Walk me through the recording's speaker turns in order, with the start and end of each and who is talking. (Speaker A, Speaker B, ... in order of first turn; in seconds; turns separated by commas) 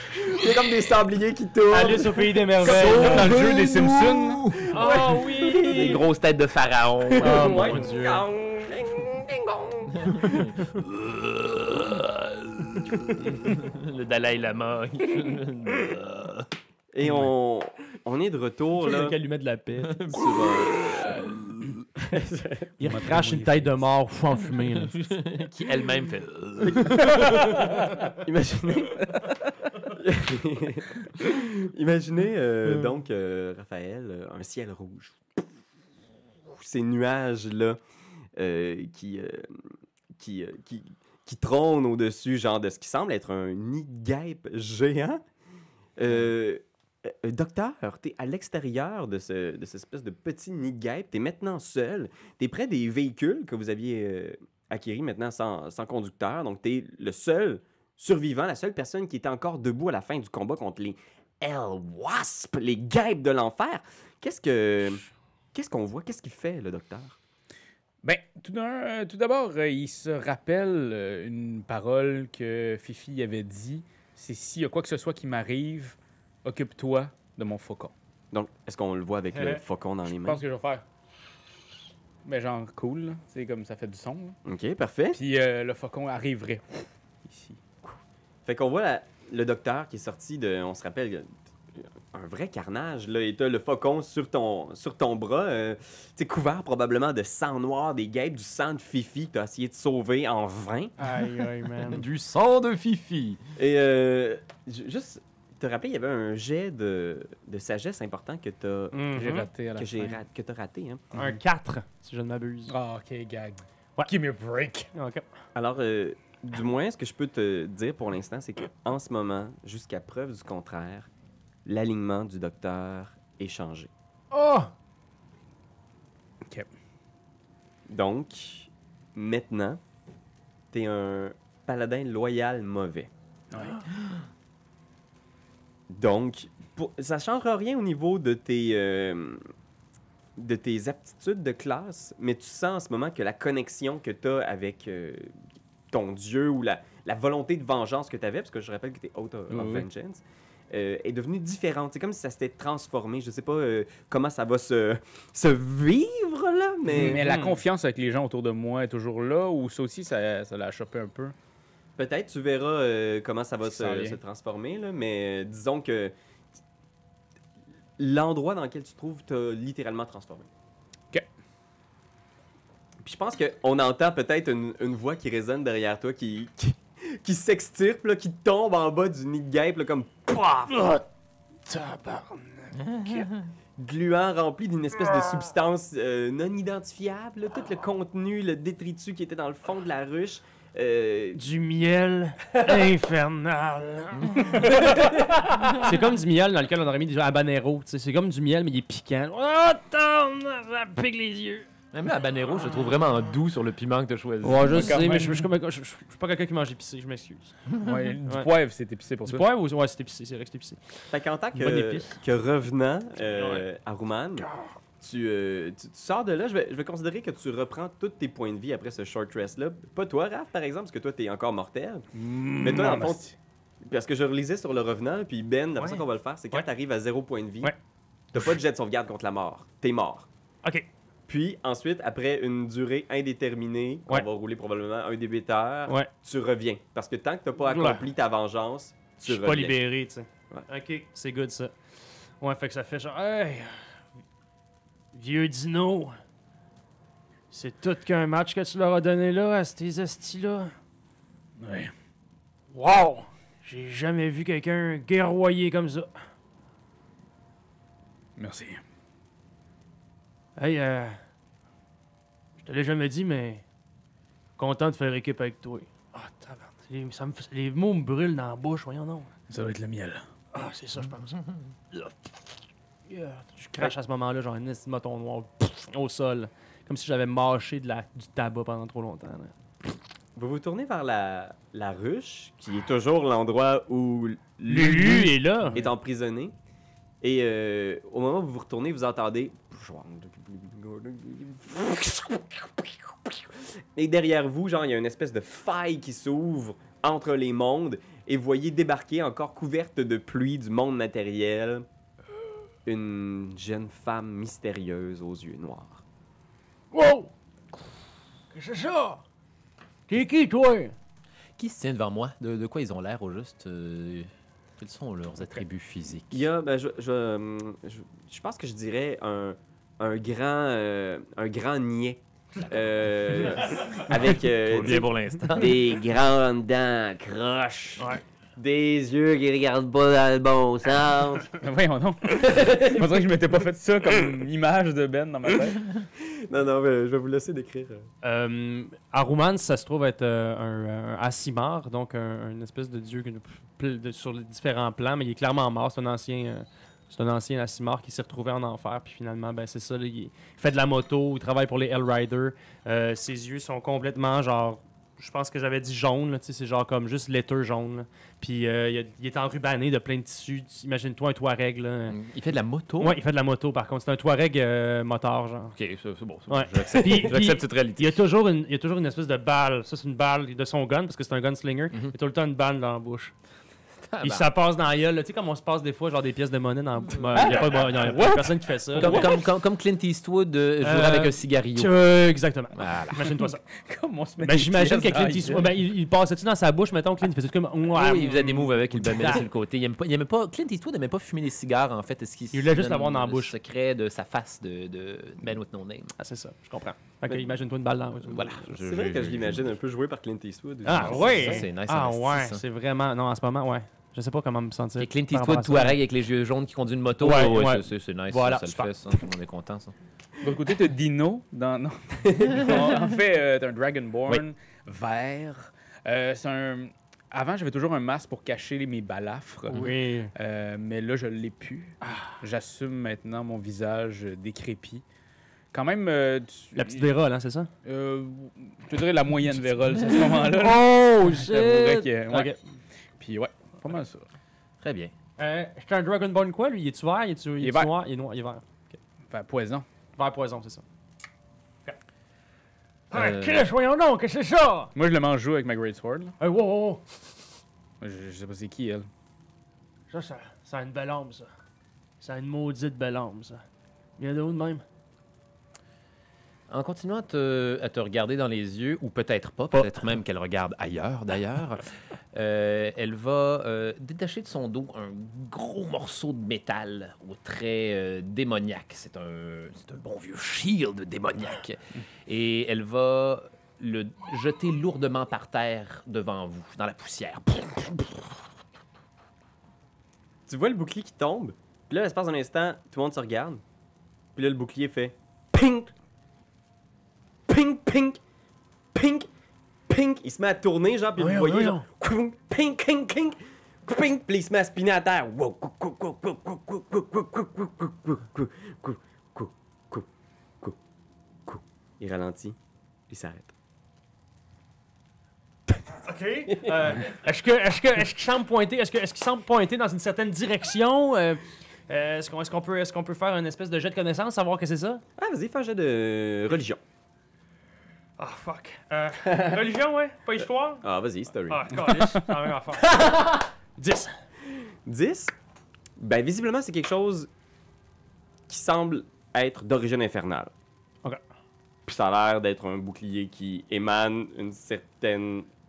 Speaker A: 0.1-2.2, Speaker B: 1.7-3.5, Speaker C: 2.6-4.4, Speaker D: 2.6-4.6, Speaker B: 4.7-6.0, Speaker A: 4.7-6.0, Speaker D: 5.7-7.8, Speaker A: 7.1-10.4, Speaker B: 7.2-8.2, Speaker D: 10.2-16.5, Speaker A: 16.9-19.1, Speaker B: 18.8-20.1, Speaker D: 19.9-21.4, Speaker A: 20.1-21.1, Speaker A: 22.1-22.7, Speaker B: 22.8-25.1, Speaker C: 22.8-23.9, Speaker D: 25.0-27.8, Speaker A: 26.6-35.4, Speaker A: 36.5-37.8, Speaker A: 38.4-45.2, Speaker A: 46.0-67.2, Speaker C: 68.0-77.9, Speaker A: 78.3-80.4, Speaker B: 79.3-79.6, Speaker C: 80.1-80.8, Speaker C: 82.2-84.4, Speaker A: 84.4-85.2, Speaker C: 85.1-87.6, Speaker A: 87.8-100.9, Speaker B: 101.0-102.0, Speaker D: 101.8-103.4, Speaker A: 103.6-109.0, Speaker B: 108.9-109.5, Speaker C: 109.1-110.2, Speaker A: 109.8-111.0, Speaker C: 111.1-111.4, Speaker B: 111.1-112.7, Speaker C: 112.7-114.9, Speaker B: 114.9-115.2, Speaker A: 115.5-121.1, Speaker A: 121.7-123.9, Speaker B: 124.3-124.7, Speaker C: 126.4-126.7, Speaker A: 127.9-129.8, Speaker A: 130.7-133.1, Speaker C: 133.5-133.8, Speaker A: 135.9-139.4, Speaker A: 140.4-145.3, Speaker A: 145.9-157.2, Speaker C: 149.5-149.9, Speaker C: 156.9-161.3, Speaker B: 156.9-157.6, Speaker A: 162.0-166.1, Speaker C: 163.6-164.2, Speaker A: 168.0-170.5, Speaker A: 173.0-180.9, Speaker B: 180.7-181.0, Speaker B: 181.7-183.3, Speaker D: 182.8-183.2, Speaker A: 183.8-191.4, Speaker B: 191.3-201.7, Speaker D: 194.1-194.7, Speaker D: 201.9-205.0, Speaker B: 204.4-207.6, Speaker C: 204.7-205.4, Speaker C: 207.8-209.4, Speaker B: 209.2-212.2, Speaker A: 211.1-214.5, Speaker B: 213.3-213.7, Speaker B: 214.4-214.7, Speaker A: 215.0-222.1, Speaker C: 222.1-223.3, Speaker A: 222.6-223.2, Speaker A: 223.8-227.7, Speaker B: 225.8-226.7, Speaker A: 228.3-230.3, Speaker A: 231.3-239.8, Speaker B: 237.6-238.1, Speaker B: 239.2-244.0, Speaker B: 245.1-246.2, Speaker B: 247.5-250.7, Speaker C: 251.6-251.9, Speaker B: 252.7-256.1, Speaker C: 258.4-258.8, Speaker B: 260.6-261.2, Speaker B: 262.6-263.6, Speaker B: 264.6-269.3, Speaker C: 269.5-270.3, Speaker B: 270.5-271.4, Speaker B: 271.9-272.3, Speaker B: 273.1-279.5, Speaker A: 280.4-286.5, Speaker B: 284.7-285.8, Speaker A: 287.2-301.8, Speaker A: 302.9-306.0, Speaker B: 306.9-307.3, Speaker B: 308.5-309.2, Speaker B: 310.1-310.9, Speaker D: 311.6-316.4, Speaker A: 316.3-331.5, Speaker D: 322.6-326.0, Speaker B: 323.5-323.8, Speaker C: 331.5-336.1, Speaker A: 332.4-333.0, Speaker A: 336.2-338.1, Speaker B: 338.2-362.2, Speaker D: 362.1-363.2, Speaker B: 363.0-365.8, Speaker D: 365.7-368.2, Speaker B: 366.5-373.3, Speaker D: 374.1-374.5, Speaker B: 374.2-379.4, Speaker C: 377.3-379.4, Speaker D: 377.3-382.0, Speaker B: 380.8-383.7, Speaker D: 382.7-383.4, Speaker C: 383.8-385.7, Speaker B: 384.4-389.5, Speaker D: 387.9-396.1, Speaker B: 392.5-393.6, Speaker B: 396.2-398.7, Speaker D: 398.2-399.8, Speaker A: 398.8-401.6, Speaker B: 400.8-406.0, Speaker D: 400.9-402.6, Speaker D: 405.0-409.9, Speaker B: 407.2-409.2, Speaker C: 410.4-425.0, Speaker B: 419.7-420.3, Speaker B: 422.1-422.3, Speaker C: 425.7-427.1, Speaker B: 426.7-427.7, Speaker C: 427.8-432.6, Speaker B: 430.4-432.6, Speaker C: 433.2-434.2, Speaker D: 434.8-435.1, Speaker B: 435.4-439.0, Speaker C: 437.6-437.9, Speaker C: 439.3-439.9, Speaker B: 440.2-440.8, Speaker D: 443.1-443.7, Speaker B: 443.1-444.9, Speaker C: 444.9-446.3, Speaker B: 446.4-447.4, Speaker C: 448.0-449.1, Speaker B: 450.1-451.5, Speaker B: 452.2-453.6, Speaker B: 454.2-454.8, Speaker D: 456.7-478.4, Speaker A: 480.5-483.6, Speaker A: 484.4-485.9, Speaker A: 487.5-488.2, Speaker A: 488.9-489.3, Speaker A: 489.9-500.1, Speaker B: 491.2-491.8, Speaker A: 501.4-502.6, Speaker A: 503.1-503.5, Speaker B: 505.9-515.0, Speaker A: 506.5-507.0, Speaker A: 515.2-516.8, Speaker B: 518.2-520.8, Speaker A: 520.8-521.8, Speaker B: 521.5-524.1, Speaker C: 521.8-522.2, Speaker A: 522.9-523.4, Speaker A: 524.5-525.3, Speaker A: 526.0-527.3, Speaker A: 528.5-530.5, Speaker A: 531.9-535.5